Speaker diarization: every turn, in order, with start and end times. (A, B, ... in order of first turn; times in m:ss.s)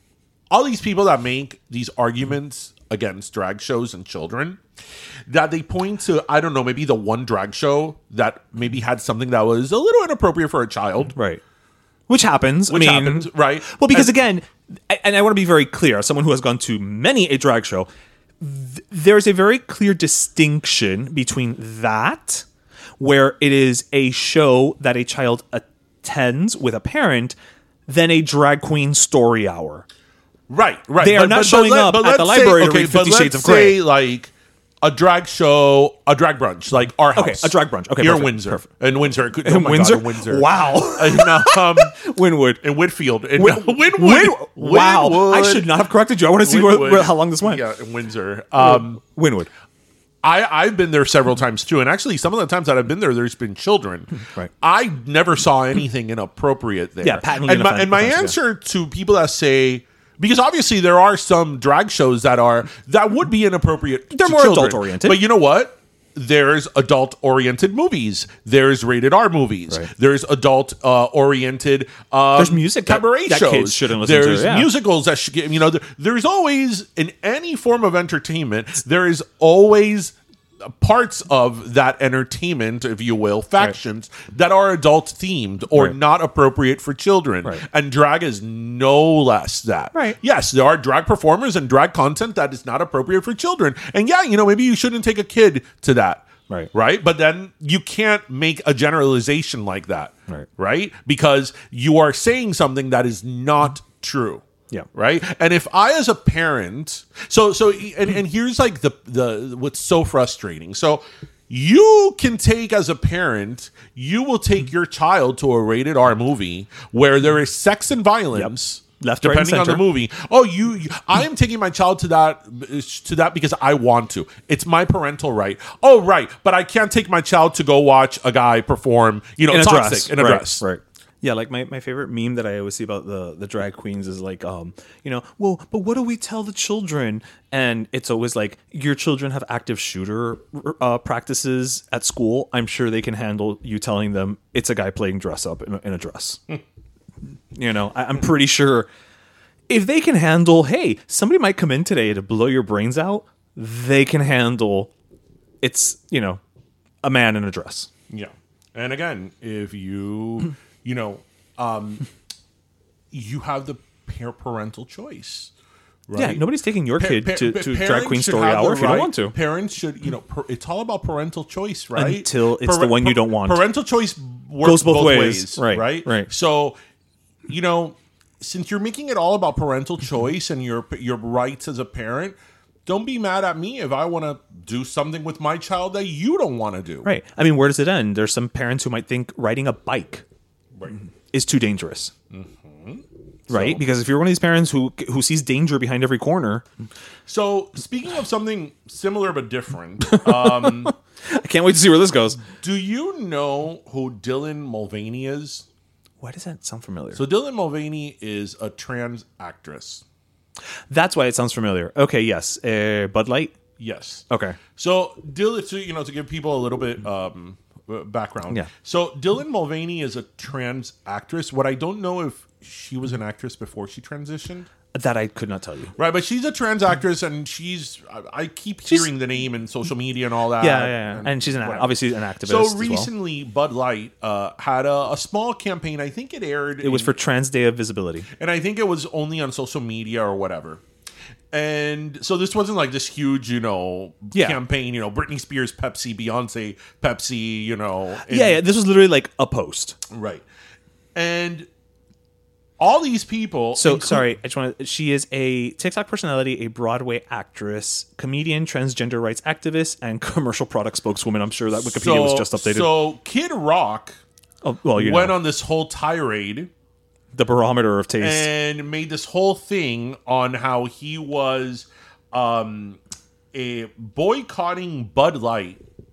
0:00.5-0:04.6 A
0:05.3-0:11.2 A
0:11.1-0:11.4 B
0:12.1-0:17.9 B
0:12.7-0:14.2 A
0:18.4-0:22.4 B
0:23.0-0:27.4 B
0:27.9-0:29.9 B
0:30.5-0:42.0 A
0:31.0-0:33.8 B
0:37.2-0:38.7 B
0:39.4-0:42.6 B
0:42.6-0:45.8 A
0:43.4-0:47.6 B
0:46.4-0:49.0 A
0:48.6-0:49.5 B
0:50.2-2:10.6 A
0:57.0-0:58.4 B
1:04.1-1:05.2 B
1:12.4-1:14.7 B
1:58.3-1:59.8 B
2:09.5-2:26.4 B
2:27.5-2:28.9 B
2:29.7-2:34.9 B
2:35.6-2:36.4 B
2:37.0-2:37.9 B
2:38.1-2:42.1 A
2:43.1-2:45.5 A
2:46.1-2:46.5 A
2:46.1-2:49.4 B
2:47.0-2:56.8 A
2:52.0-2:53.6 B
2:54.6-2:56.3 B
2:57.5-3:07.1 A
3:07.0-3:10.2 B
3:11.3-3:12.1 B
3:12.3-3:13.8 A
3:13.5-3:16.6 B
3:17.3-3:20.9 A
3:20.1-3:22.4 B
3:22.4-3:25.7 A
3:26.2-3:27.2 B
3:27.1-3:30.0 A
3:30.9-3:33.6 B
3:33.8-3:34.2 A
3:34.3-3:34.6 B
3:34.8-3:44.7 A
3:44.9-3:45.9 B
3:46.0-3:57.2 A
3:50.6-3:53.1 B
3:56.8-3:58.3 B
3:58.4-4:00.8 A
4:01.5-4:08.6 A
4:04.3-4:04.6 B
4:08.3-4:10.0 B
4:10.1-4:10.4 A
4:11.2-4:11.7 A
4:12.8-4:14.3 A
4:13.8-4:23.0 B
4:21.7-4:24.2 A
4:24.6-4:25.4 B
4:25.0-4:26.7 A
4:27.3-4:28.5 B
4:28.2-4:33.0 A
4:33.5-4:35.8 A